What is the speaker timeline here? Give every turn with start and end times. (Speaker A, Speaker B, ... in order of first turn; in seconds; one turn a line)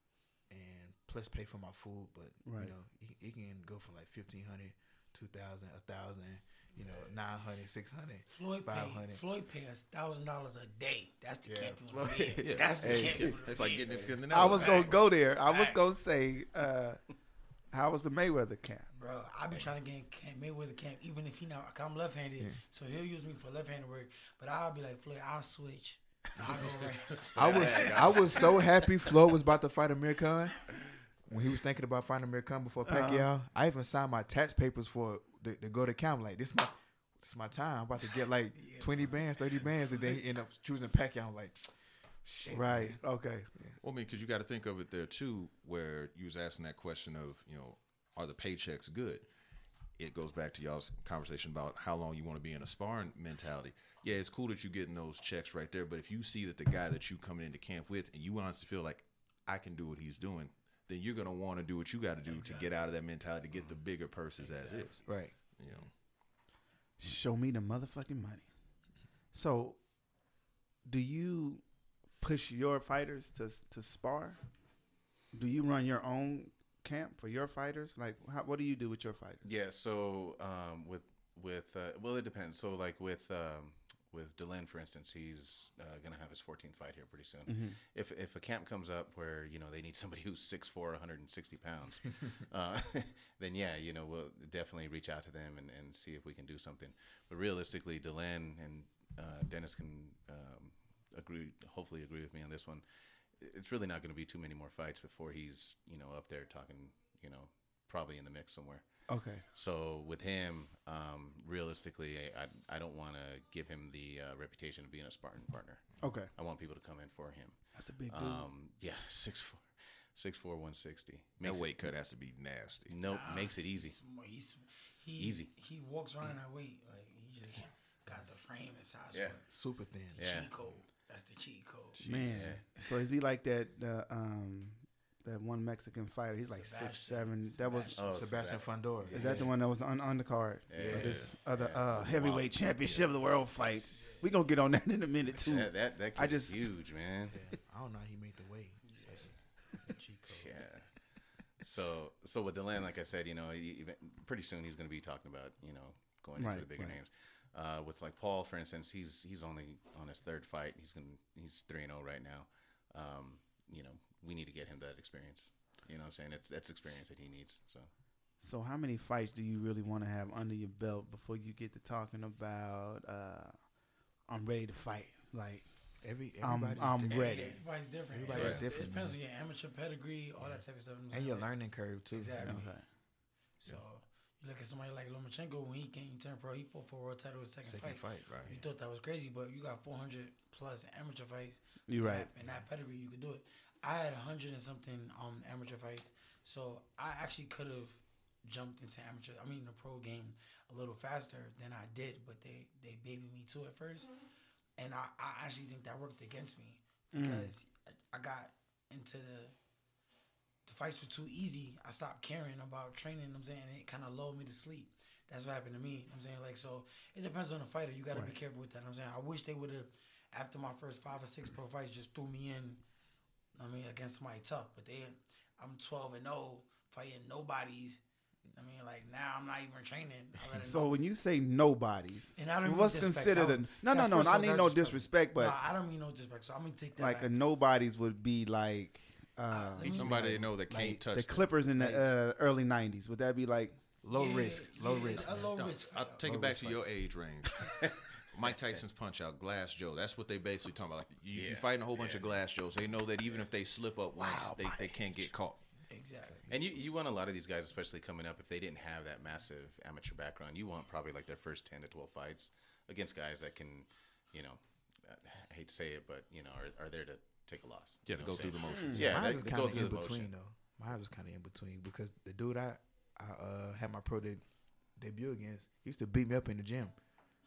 Speaker A: 0.5-9.2
Speaker B: 2.4-2.7
Speaker C: 8.3-15.8
Speaker A: 11.4-14.2
Speaker D: 12.4-15.0
Speaker B: 14.3-17.0
Speaker B: 17.7-18.9
Speaker C: 18.9-28.4
Speaker A: 27.3-30.7
Speaker D: 27.3-28.4
Speaker E: 27.5-28.2
Speaker A: 31.3-43.0
Speaker B: 32.9-33.3
Speaker C: 38.1-40.1
Speaker B: 42.5-43.5
Speaker D: 43.8-49.3
Speaker D: 50.0-65.0
Speaker C: 62.3-62.7
Speaker C: 64.4-64.9
Speaker A: 65.0-65.3
Speaker D: 65.6-65.9
Speaker B: 67.0-68.5
Speaker B: 69.3-69.8
Speaker B: 70.8-71.6
Speaker B: 72.2-74.4
Speaker B: 75.3-79.5
Speaker E: 79.4-102.8
Speaker B: 87.5-87.8
Speaker E: 103.4-108.9
Speaker B: 109.1-109.4
Speaker E: 109.5-121.7
Speaker B: 116.0-116.3
Speaker B: 117.7-118.5
Speaker D: 121.4-123.0
Speaker E: 122.9-124.0
Speaker C: 123.0-129.4
Speaker E: 125.2-125.5
Speaker E: 129.1-129.4
Speaker A: 129.5-130.2
Speaker C: 130.2-132.0
Speaker E: 130.2-130.5
Speaker D: 132.0-132.6
Speaker B: 132.1-138.0
Speaker E: 132.1-132.6
Speaker C: 136.5-138.0
Speaker E: 137.9-139.5
Speaker A: 138.0-139.5
Speaker B: 139.1-146.7
Speaker E: 140.7-143.2
Speaker A: 140.8-141.2
Speaker D: 140.9-141.3
Speaker E: 145.4-147.4
Speaker A: 147.3-150.5
Speaker C: 148.9-149.2
Speaker E: 150.3-150.9
Speaker E: 151.6-167.9
Speaker B: 156.4-157.0
Speaker B: 168.4-173.6
Speaker B: 174.3-175.6
Speaker A: 176.0-179.2
Speaker B: 176.4-177.6
Speaker C: 177.1-181.5
Speaker D: 178.3-178.6
Speaker A: 181.1-182.5
Speaker C: 182.1-182.7
Speaker B: 182.4-182.8
Speaker C: 183.6-204.1
Speaker A: 187.6-188.6
Speaker D: 188.3-188.5
Speaker B: 191.9-192.3
Speaker C: 204.8-209.6
Speaker B: 207.1-207.5
Speaker C: 210.7-222.8
Speaker C: 223.6-228.0
Speaker C: 228.5-231.0
Speaker B: 230.5-235.6
Speaker C: 232.4-237.3
Speaker B: 237.0-240.1
Speaker C: 239.5-240.1
Speaker D: 239.8-241.6
Speaker A: 239.9-241.1
Speaker B: 241.1-243.8
Speaker A: 241.7-242.1
Speaker A: 244.0-245.5
Speaker C: 244.1-246.2
Speaker D: 245.1-255.6
Speaker A: 246.2-246.9
Speaker E: 247.8-248.6
Speaker E: 251.3-252.3
Speaker B: 254.2-255.2
Speaker C: 255.9-256.5
Speaker E: 256.5-270.3
Speaker D: 268.1-269.3
Speaker B: 268.7-269.1
Speaker A: 268.9-274.4
Speaker A: 275.0-276.9